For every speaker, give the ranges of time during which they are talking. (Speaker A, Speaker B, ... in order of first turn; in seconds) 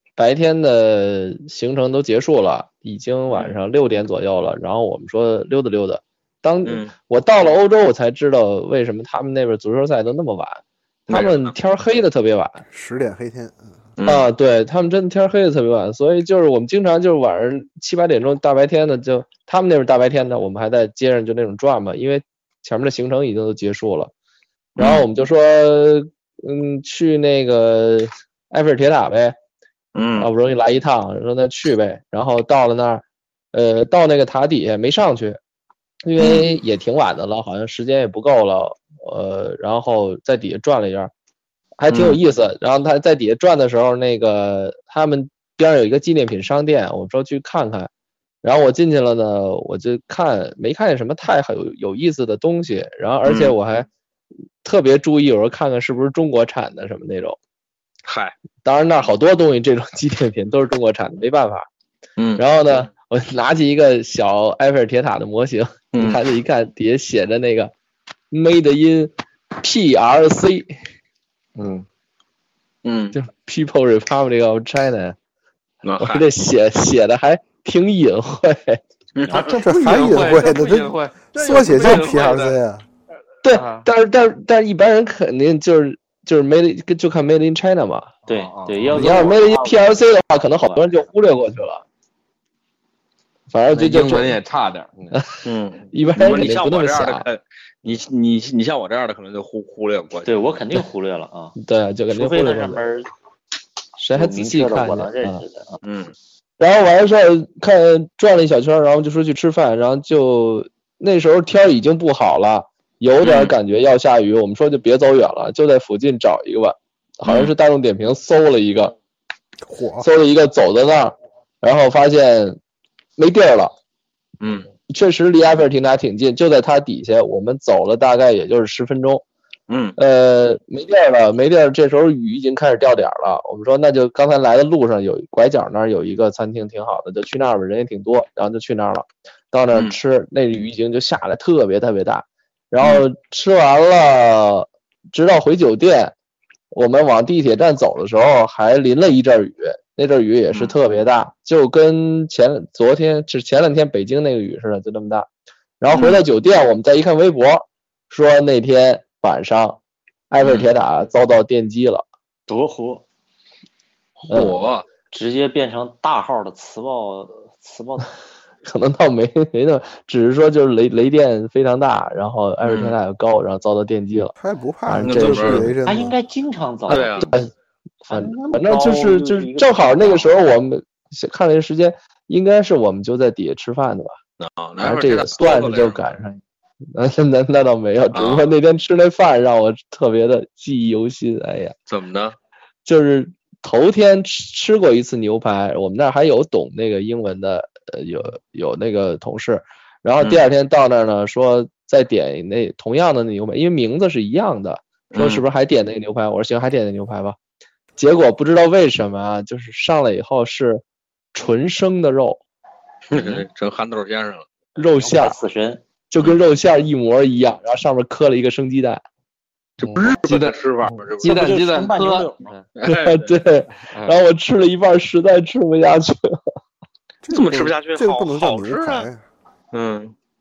Speaker A: 0.2-12.6, 14.1-24.1, 24.8-29.4, 30.2-35.4, 36.0-41.1, 41.8-47.9, 48.4-53.9, 54.6-57.4, 58.6-61.7, 62.4-67.7, 68.3-70.7, 73.1-75.2, 76.0-78.8, 83.4-88.1, 88.9-91.8, 93.5-94.4, 95.9-97.3, 101.6-102.8, 104.0-105.4, 106.6-118.9, 120.0-122.6, 123.2-123.7, 124.9-129.2, 130.0-146.1, 146.7-155.3, 155.8-162.0, 164.3-164.6, 168.6-174.3, 174.9-175.8, 178.1-184.2, 184.8-186.4, 186.9-191.7, 192.8-207.3, 208.0-210.8, 211.3-212.4, 214.8-215.4, 216.1-219.0, 222.8-226.4
Speaker B: 6.6-6.9, 11.1-11.5, 14.0-14.3, 24.8-25.0, 29.9-30.3, 36.2-36.5, 41.9-42.2, 53.2-53.5, 58.0-58.3, 62.2-62.4, 65.9-66.2, 72.8-73.1, 75.8-76.3, 79.1-79.5, 95.4-100.4, 105.8-106.1, 113.2-113.5, 117.2-117.5, 124.4-124.7, 129.7-129.9, 155.9-156.2, 160.4-160.7, 164.2-164.8, 172.6-172.9, 175.0-175.7, 176.9-177.3, 184.4-186.0, 188.1-188.5, 191.9-192.3, 205.1-205.4, 213.1-214.5, 219.8-221.5, 222.8-223.4, 227.3-229.1, 229.7-230.1
Speaker C: 12.7-13.8, 79.6-82.8, 119.7-120.1, 174.4-176.1, 227.2-229.2
Speaker D: 71.5-71.8, 79.3-82.5, 83.5-83.9, 88.3-89.3, 93.7-95.3, 219.8-222.7, 223.9-224.2
Speaker E: 79.3-79.7, 88.2-90.0, 90.6-91.0, 100.2-101.5, 102.1-103.1, 104.1-105.8, 162.5-163.0, 165.1-168.1, 175.8-177.5, 178.1-180.4, 213.2-213.4, 215.0-215.8, 221.2-222.5